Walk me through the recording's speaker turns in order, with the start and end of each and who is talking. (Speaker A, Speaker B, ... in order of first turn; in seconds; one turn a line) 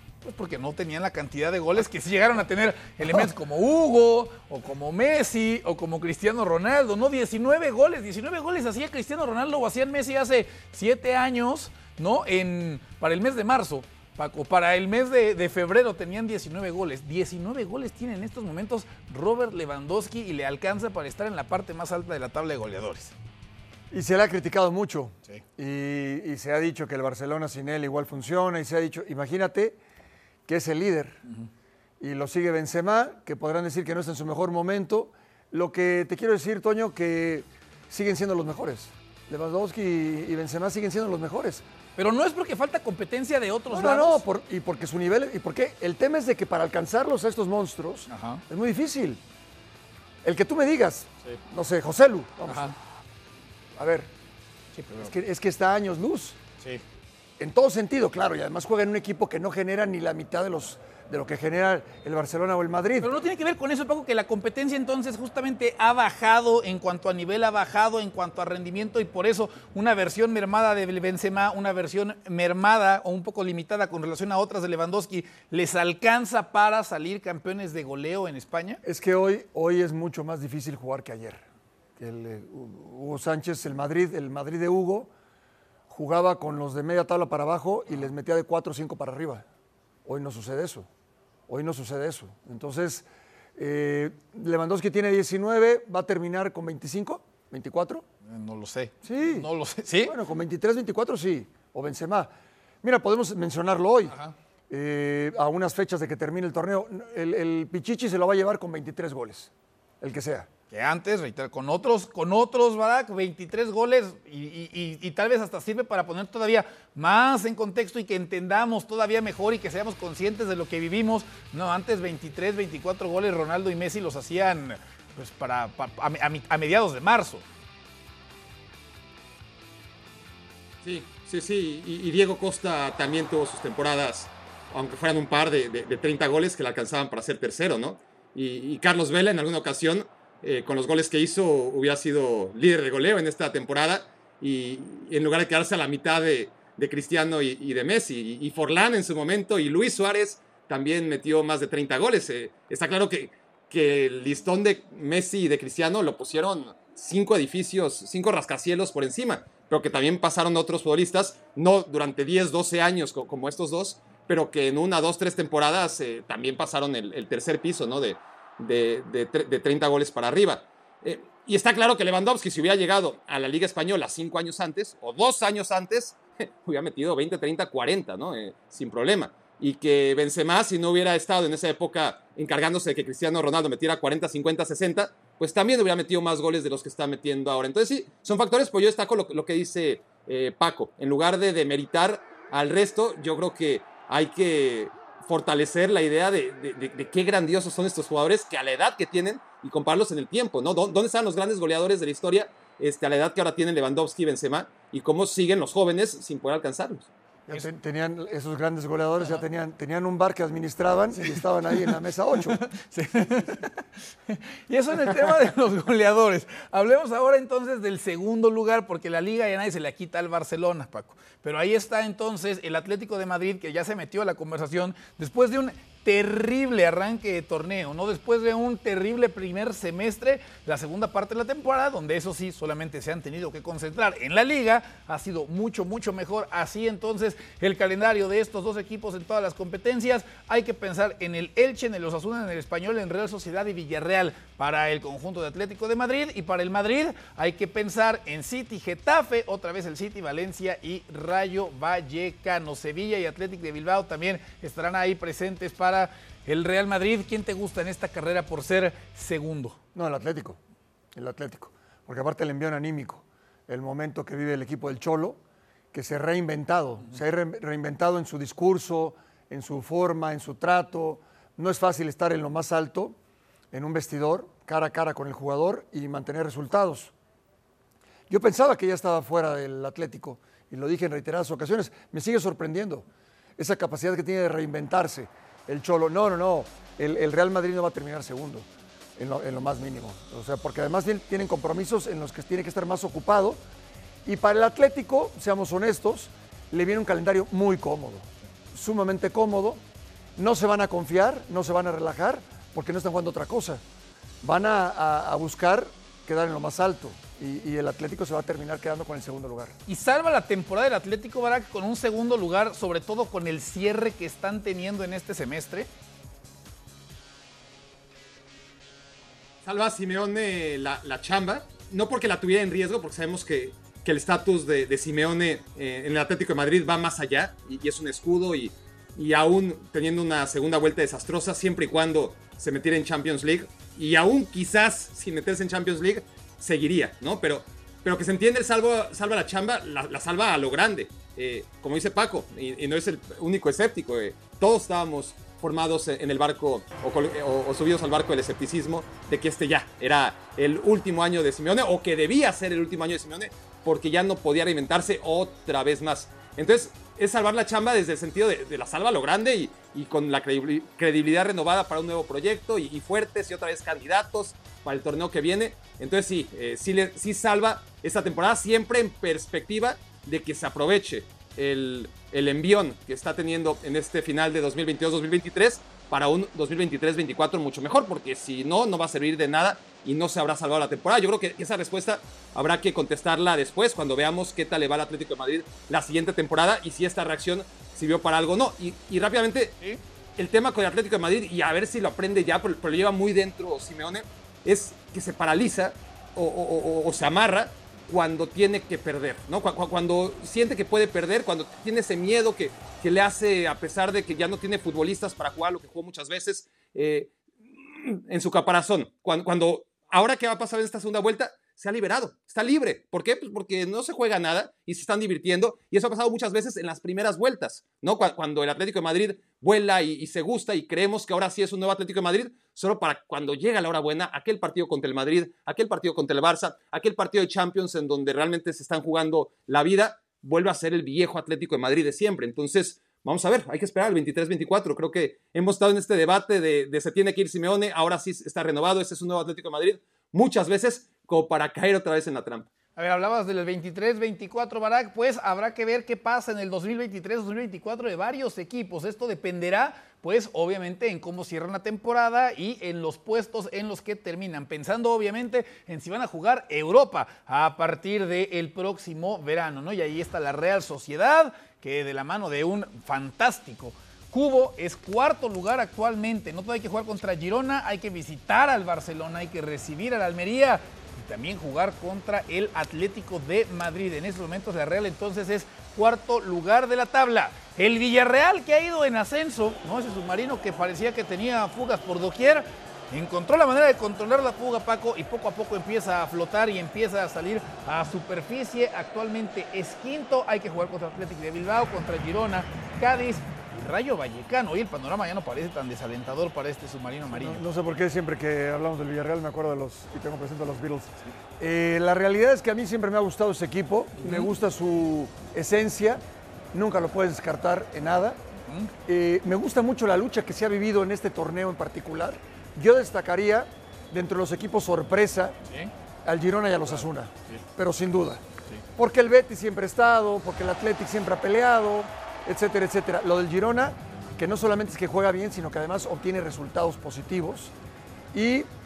Speaker A: 0.2-23.1
Speaker B: 23.9-29.8
Speaker B: 30.5-31.2
Speaker B: 32.0-41.6
Speaker A: 42.0-44.2
Speaker B: 43.7-49.2
Speaker A: 48.1-48.4
Speaker B: 50.2-52.8
Speaker A: 52.5-52.8
Speaker B: 53.8-54.1
Speaker A: 54.7-55.1
Speaker B: 55.0-56.4
Speaker B: 57.4-63.1
Speaker A: 63.0-78.8
Speaker B: 78.8-81.5
Speaker B: 82.0-85.1
Speaker B: 85.9-89.5
Speaker B: 90.1-90.9
Speaker B: 91.5-93.1
Speaker B: 93.6-98.1
Speaker A: 98.3-100.2
Speaker B: 99.0-104.2
Speaker A: 104.1-104.3
Speaker B: 104.7-110.5
Speaker A: 110.7-127.4
Speaker C: 130.8-207.1
Speaker B: 207.5-212.6
Speaker A: 211.2-211.9
Speaker A: 212.5-259.8
Speaker B: 259.9-260.6
Speaker B: 261.1-265.4
Speaker B: 265.9-273.2
Speaker B: 273.7-277.1
Speaker B: 278.3-283.1
Speaker B: 283.6-293.6
Speaker B: 294.2-299.8
Speaker B: 300.4-303.8
Speaker B: 304.4-309.8
Speaker A: 309.9-315.9
Speaker C: 319.6-389.8
Speaker C: 390.4-407.3
Speaker C: 407.9-442.7
Speaker A: 443.0-497.6
Speaker B: 497.3-506.2
Speaker A: 504.2-504.5
Speaker B: 506.7-508.4
Speaker A: 508.7-508.9
Speaker B: 509.1-515.6
Speaker B: 516.2-518.4
Speaker B: 519.0-527.7
Speaker B: 528.3-528.7